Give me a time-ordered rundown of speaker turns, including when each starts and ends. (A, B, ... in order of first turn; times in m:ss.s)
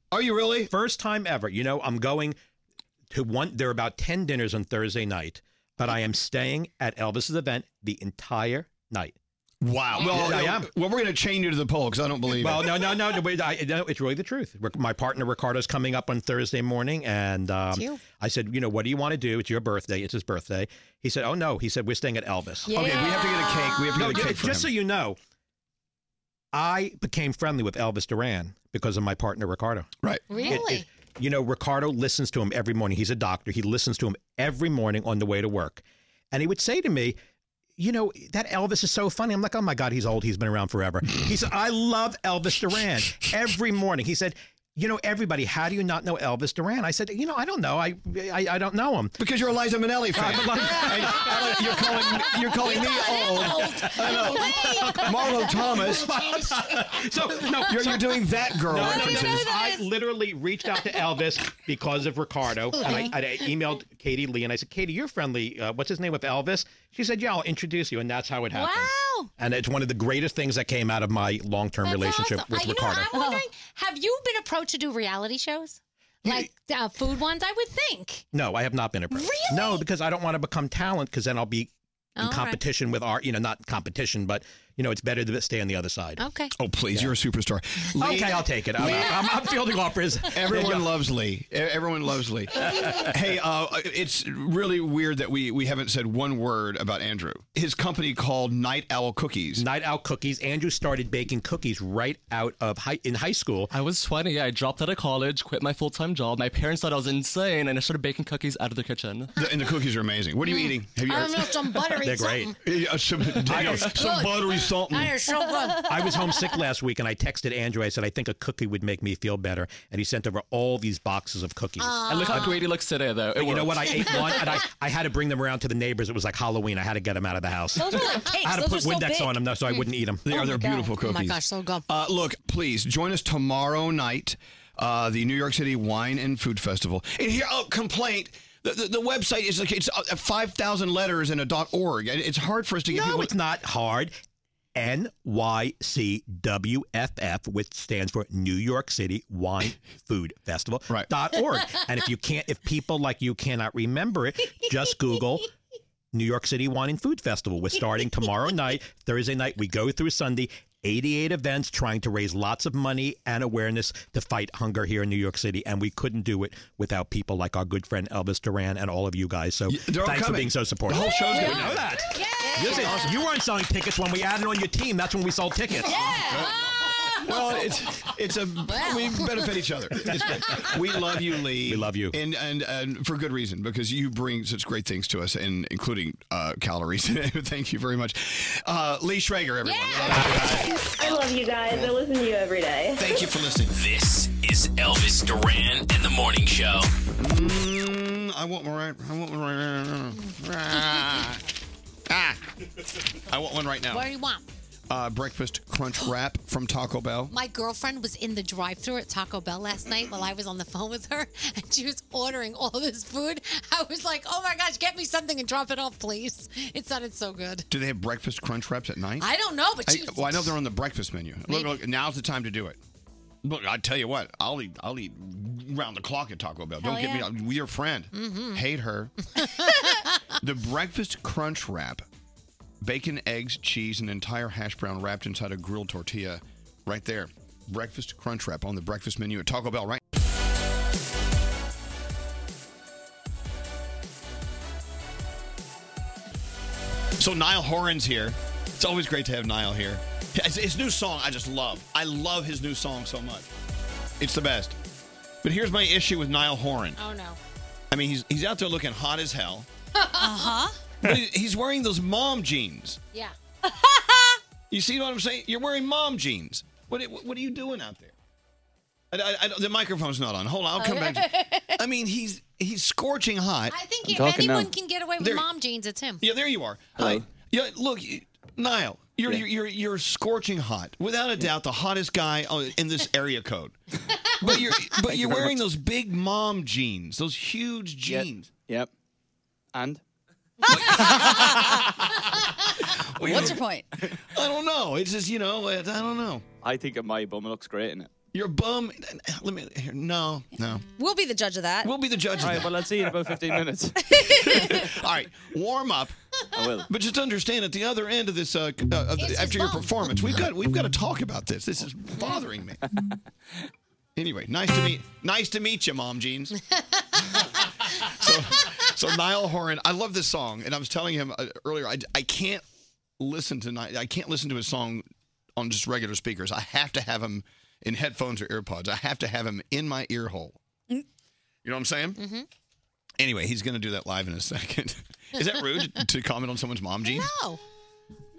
0:00.1-0:00.7 A
0:00.7-0:02.4 B
0:03.1-0:09.1 B
0:09.6-0:12.7 A
0:10.0-0:10.7 B
0:12.4-0:22.8 B
0:17.7-0:18.0 C
0:22.7-0:24.7 A
0:22.7-0:23.8 C
0:23.9-0:25.2 B
0:26.5-0:29.9 B
0:30.0-0:30.6 A
0:30.3-0:30.9 C
0:30.4-0:37.2 B
0:37.8-0:49.2 B
0:49.2-0:56.1 A
0:50.1-0:51.4 B
0:52.8-0:54.1 C
0:54.7-0:55.0 C
0:55.8-0:58.1 B
0:57.7-0:59.5 A
0:58.6-1:13.1 B
1:08.6-1:08.9 C
1:11.8-1:18.2 C
1:13.1-1:13.5 D
1:18.3-1:26.2 B
1:19.1-1:19.8 C
1:22.2-1:22.6 C
1:26.2-1:26.5 C
1:26.6-1:29.1 A
1:28.0-1:30.9 B
1:30.3-1:39.7 A
1:39.6-1:43.7 B
1:43.7-1:49.3 E
1:49.4-1:51.6 A
1:50.5-1:52.6 C
1:52.0-1:52.5 B
1:52.6-1:55.2 A
1:53.4-1:53.9 B
1:53.5-1:56.3 C
1:55.8-2:02.6 B
2:01.8-2:02.6 C
2:02.2-2:04.3 E
2:03.3-2:10.3 B
2:04.0-2:04.5 C
2:07.8-2:09.3 D
2:07.9-2:08.4 C
2:10.2-2:23.3 A
2:10.5-2:10.8 D
2:10.5-2:11.9 C
2:22.9-2:24.1 B
2:24.8-2:35.5 B
2:36.1-2:55.9 B
2:49.7-2:52.0 A
2:51.3-2:51.6 C
2:51.3-2:51.6 D
2:52.1-2:53.1 C
2:52.4-2:53.1 D
2:52.7-2:53.1 A
2:55.9-2:57.2 C
2:56.2-2:56.5 A
2:57.2-3:12.0 A
2:58.7-2:59.4 C
3:01.6-3:02.2 B
3:09.7-3:10.1 C
3:10.0-3:10.7 B
3:10.5-3:13.2 F
3:13.0-3:13.8 A
3:13.7-3:16.9 G
3:17.2-3:21.4 A
3:22.1-3:22.4 A
3:23.3-3:24.1 A
3:23.9-3:24.4 C
3:24.9-3:27.3 A
3:27.3-3:37.7 C
3:37.7-3:39.3 A
3:39.2-3:40.6 C
3:39.9-3:42.8 A
3:41.5-3:41.8 C
3:43.4-3:49.1 A
3:46.8-3:47.2 D
3:48.1-3:48.6 C
3:49.4-3:50.1 C
3:50.4-3:52.0 A
3:52.8-4:00.0 A
4:07.2-4:13.5 A
4:14.2-4:14.8 A
4:15.4-4:17.0 A
4:17.0-4:17.4 C
4:17.9-4:19.7 A
4:20.0-4:20.6 C
4:20.2-4:20.8 D
4:21.0-4:23.0 A
4:24.7-4:28.1 A
4:29.1-4:33.8 A
4:30.8-4:31.7 C
4:33.7-4:36.2 C
4:34.1-4:34.7 H
4:35.2-4:35.5 A
4:36.2-4:43.8 A
4:37.0-4:37.2 H
4:44.4-4:48.5 A
4:44.4-4:45.6 H
4:48.0-4:48.9 H
4:50.7-4:51.8 D
4:50.7-4:51.7 A
4:53.2-4:53.6 A
4:53.2-4:53.9 D
4:54.3-4:56.4 A
4:56.6-4:58.1 H
4:58.3-5:00.8 A
5:01.0-5:01.9 D
5:01.8-5:02.8 A
5:02.5-5:03.9 H
5:04.1-5:04.8 D
5:04.3-5:06.1 A
5:06.6-5:06.9 H
5:06.9-5:12.8 A
5:09.2-5:10.2 C
5:14.2-5:16.6 A
5:18.1-5:22.6 A
5:23.2-5:30.6 A
5:31.6-5:32.2 A
5:32.2-5:32.5 C
5:33.2-5:37.3 A
5:37.0-5:37.6 C